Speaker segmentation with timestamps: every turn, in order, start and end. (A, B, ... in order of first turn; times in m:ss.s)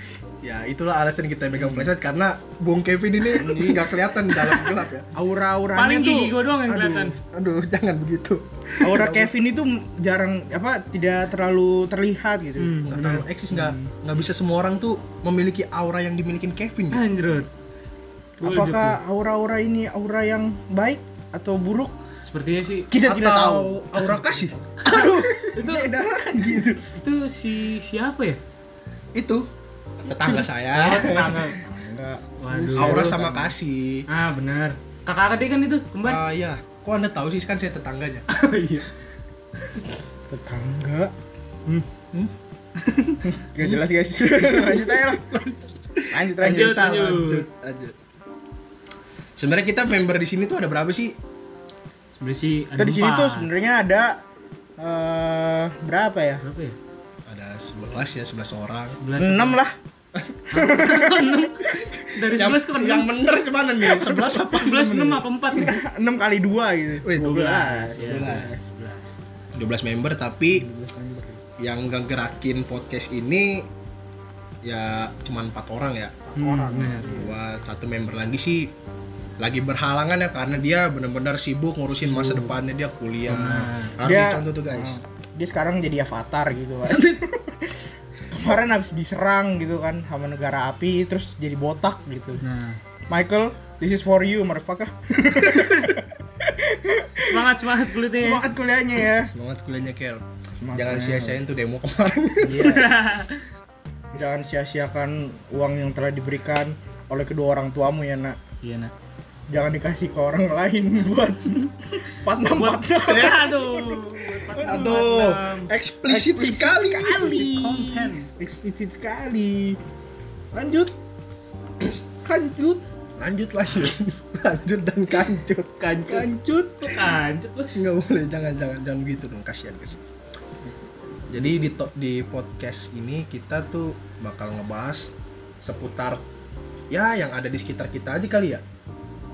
0:00.4-0:05.1 A
0:03.3-0:03.8 B
0:05.2-0:07.1 B
0:05.7-0:07.1 C
0:07.2-0:09.3 A
0:08.8-0:12.8 B
0:12.6-0:13.9 C
0:12.8-0:17.0 A
0:16.9-0:17.5 C
0:18.4-0:21.9 B
0:18.4-0:19.0 C
0:22.2-0:22.9 C
0:22.9-0:24.3 B
0:23.0-0:25.1 A
0:24.8-0:26.8 B
0:25.0-0:25.9 C
0:27.0-0:28.4 C
0:29.2-0:29.4 A
0:30.0-0:31.3 A
0:30.1-0:33.5 B
0:30.8-0:31.6 C
0:32.4-0:33.2 C
0:32.5-0:34.0 A
0:34.1-0:36.2 C
0:36.0-0:38.2 A
0:38.3-0:38.9 C
0:40.3-0:41.1 B
0:42.8-0:43.2 C
0:43.3-0:45.6 B
0:44.4-0:45.2 A
0:46.0-0:47.9 A
0:46.1-0:46.5 B
0:46.4-0:47.4 C
0:49.4-0:51.2 A
0:52.2-0:53.5 C
0:52.8-0:54.2 B
0:54.8-0:56.4 B
0:56.4-0:56.8 C
0:57.3-0:59.0 A
0:58.9-0:59.6 C
0:59.2-0:59.7 B
1:00.2-1:05.0 A
1:00.5-1:03.1 C
1:00.6-1:01.2 B
1:03.9-1:08.6 B
1:04.5-1:05.8 C
1:07.0-1:08.5 A
1:07.6-1:09.1 C
1:09.5-1:10.6 A
1:10.5-1:11.4 B
1:11.6-1:13.6 A
1:14.6-1:16.3 A
1:16.4-1:17.1 C
1:16.4-1:17.3 B
1:17.0-1:18.7 A
1:19.4-1:25.0 A
1:21.9-1:22.5 C
1:23.3-1:23.9 C
1:24.0-1:27.7 B
1:28.3-1:32.4 B
1:32.4-1:32.8 C
1:33.1-1:36.0 B
1:36.6-1:37.5 B
1:37.3-1:38.4 C
1:38.0-1:39.3 B
1:39.2-1:40.2 A
1:40.6-1:41.4 B
1:40.7-1:42.6 A
1:42.4-1:42.8 B
1:42.5-1:43.4 C
1:44.1-1:48.4 B
1:48.6-1:48.9 C
1:49.5-1:54.7 B
1:52.5-1:55.7 C
1:54.6-1:57.6 A
1:56.1-1:59.8 B
1:57.2-1:58.2 C
2:00.5-2:00.9 B
2:02.2-2:02.8 B
2:03.2-2:05.7 A
2:05.8-2:07.8 C
2:06.1-2:06.8 B
2:07.7-2:10.0 A
2:11.3-2:16.2 A
2:16.9-2:18.6 A